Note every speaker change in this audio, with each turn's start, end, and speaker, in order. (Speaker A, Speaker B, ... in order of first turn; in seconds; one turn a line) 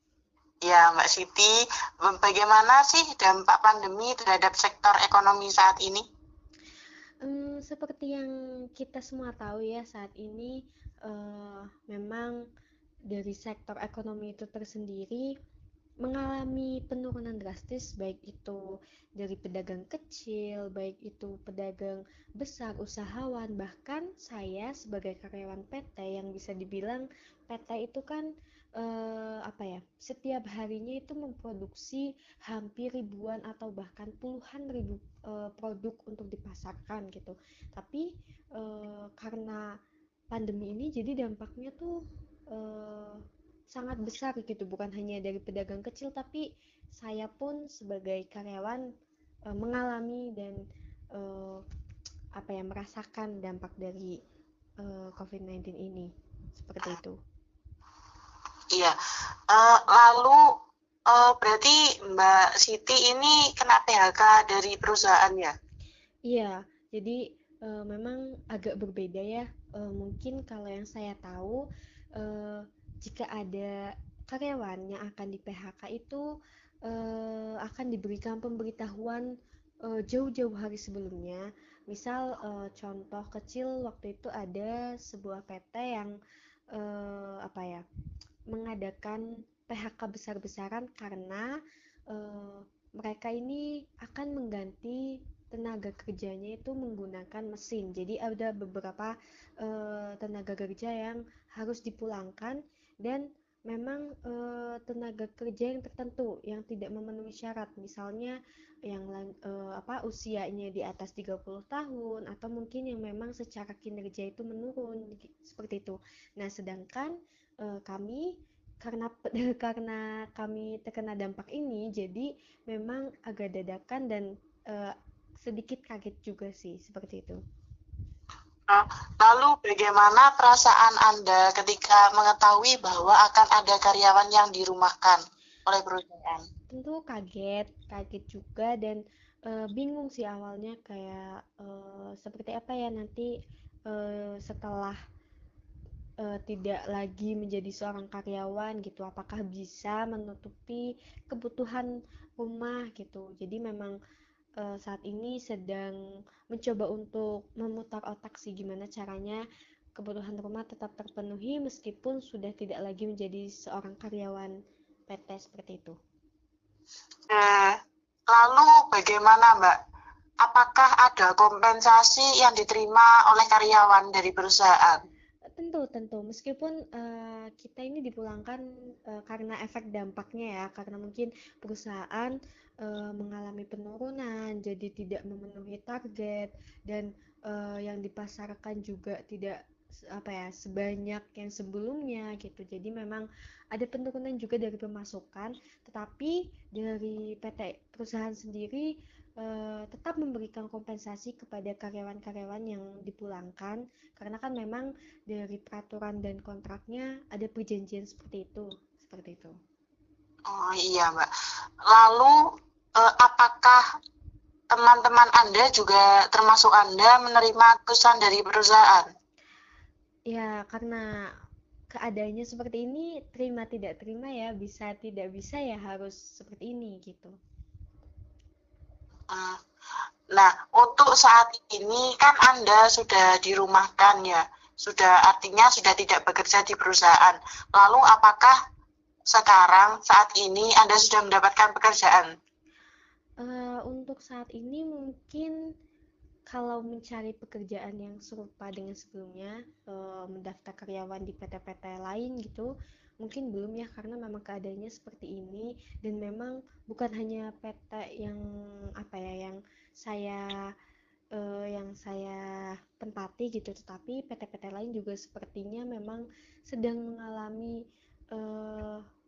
Speaker A: 0.6-6.0
Speaker B: 7.2-12.4
Speaker B: 13.1-15.3
Speaker B: 16.0-18.6
Speaker B: 19.2-39.7
Speaker B: 40.3-41.9
Speaker B: 42.5-43.2
Speaker B: 43.7-48.9
Speaker B: 49.5-50.6
Speaker B: 51.1-51.6
Speaker B: 52.4-54.2
Speaker B: 54.8-57.2
Speaker A: 59.5-60.4
Speaker A: 61.1-65.5
Speaker B: 66.3-71.6
Speaker B: 72.2-73.8
Speaker B: 74.3-76.2
Speaker B: 76.9-79.3
Speaker B: 79.8-86.1
Speaker B: 86.7-87.8
Speaker B: 88.5-91.5
Speaker B: 92.1-108.4
Speaker B: 108.9-118.3
Speaker B: 118.8-127.4
Speaker A: 128.7-136.5
Speaker B: 136.7-143.3
Speaker B: 143.9-145.0
Speaker B: 146.2-153.9
Speaker B: 154.6-156.0
Speaker B: 156.5-159.4
Speaker B: 160.0-164.5
Speaker B: 165.1-166.0
Speaker A: 167.3-167.8
Speaker A: 168.3-169.8
Speaker A: 170.4-175.0
Speaker B: 175.5-189.6
Speaker B: 190.1-209.6
Speaker A: 210.5-211.3
Speaker A: 211.9-212.3
Speaker A: 213.0-213.8
Speaker A: 214.7-219.1
Speaker B: 220.3-221.2
Speaker B: 221.9-227.4
Speaker A: 229.3-229.6
Speaker A: 230.3-238.6
Speaker A: 239.3-242.3
Speaker B: 243.4-245.6
Speaker B: 246.5-252.7
Speaker B: 253.2-258.4
Speaker B: 259.0-260.5
Speaker B: 261.4-267.8
Speaker B: 268.3-269.0